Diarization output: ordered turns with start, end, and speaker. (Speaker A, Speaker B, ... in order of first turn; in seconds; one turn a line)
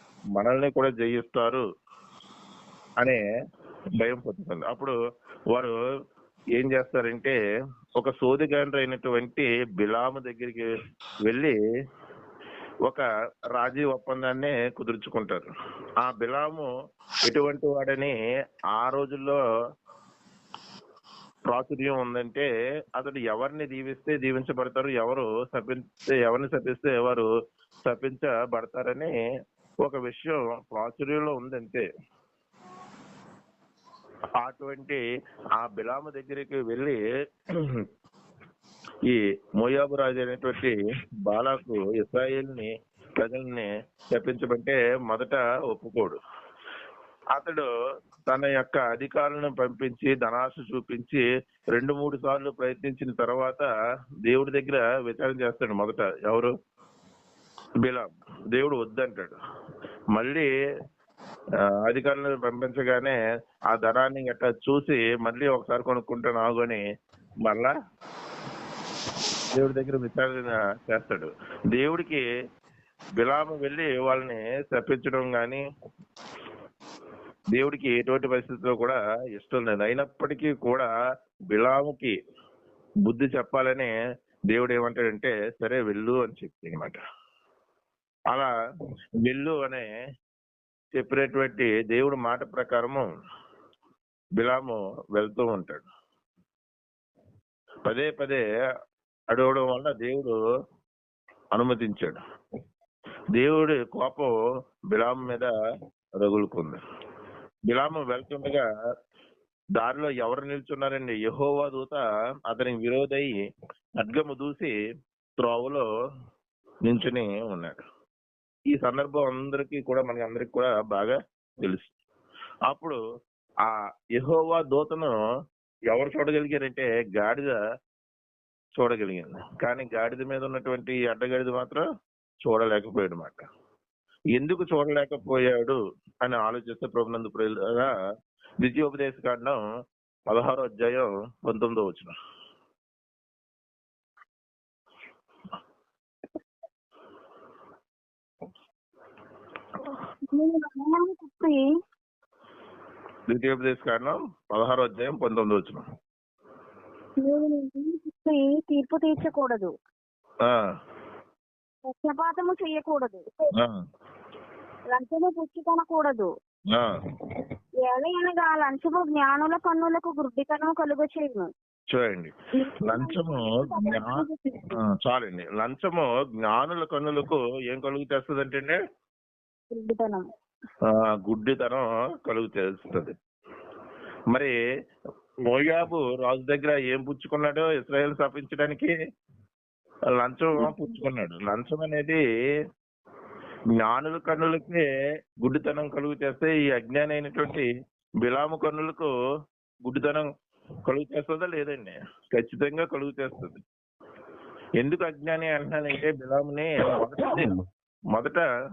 Speaker A: 0.3-1.6
Speaker A: 4.0-4.9
Speaker A: 6.5-7.4
Speaker A: 8.0-10.7
Speaker A: 11.2-11.6
Speaker A: 13.5-15.5
Speaker A: 16.0-16.7
Speaker A: 17.2-18.1
Speaker A: 18.7-19.4
Speaker A: 21.5-27.3
Speaker A: 27.8-29.1
Speaker A: 29.8-31.9
Speaker A: 34.4-35.0
Speaker A: 35.6-37.0
Speaker A: 39.1-46.2
Speaker A: 47.3-47.7
Speaker A: 48.3-51.2
Speaker A: 51.7-53.7
Speaker A: 54.2-56.5
Speaker A: 57.8-59.3
Speaker A: 60.1-60.5
Speaker A: 61.8-63.1
Speaker A: 63.7-66.8
Speaker A: 67.4-67.7
Speaker A: 69.5-72.2
Speaker A: 73.2-75.6
Speaker A: 77.5-80.9
Speaker A: 81.5-82.1
Speaker A: 83.0-83.9
Speaker A: 84.5-87.0
Speaker A: 89.2-89.9
Speaker A: 90.9-93.1
Speaker A: 94.4-95.9
Speaker A: 97.9-98.4
Speaker A: 99.3-100.3
Speaker A: 101.5-102.2
Speaker A: 103.3-104.3
Speaker A: 104.9-105.5
Speaker A: 106.2-106.8
Speaker A: 107.7-108.7
Speaker A: 109.8-113.3
Speaker A: 114.0-114.7
Speaker A: 115.4-115.8
Speaker A: 116.8-117.8
Speaker A: 118.7-121.9
Speaker A: 122.7-123.0
Speaker A: 123.7-125.2
Speaker A: 125.9-127.6
Speaker A: 128.8-131.8
Speaker A: 132.4-133.4
Speaker A: 134.3-137.9
Speaker A: 138.6-139.6
Speaker A: 140.3-142.1
Speaker B: 150.3-151.7
Speaker A: 153.3-155.8
Speaker B: 157.2-159.7
Speaker B: 161.9-163.5
Speaker B: 164.9-166.3
Speaker B: 167.8-171.5
Speaker A: 171.9-174.2
Speaker B: 172.6-174.8
Speaker A: 174.7-178.8
Speaker B: 179.7-180.2
Speaker A: 180.9-183.1
Speaker A: 185.5-188.9
Speaker A: 190.2-192.2
Speaker A: 193.8-194.8
Speaker A: 195.4-197.7
Speaker A: 198.2-199.1
Speaker A: 199.8-200.3
Speaker A: 200.8-203.6
Speaker A: 204.8-207.5
Speaker A: 208.1-208.4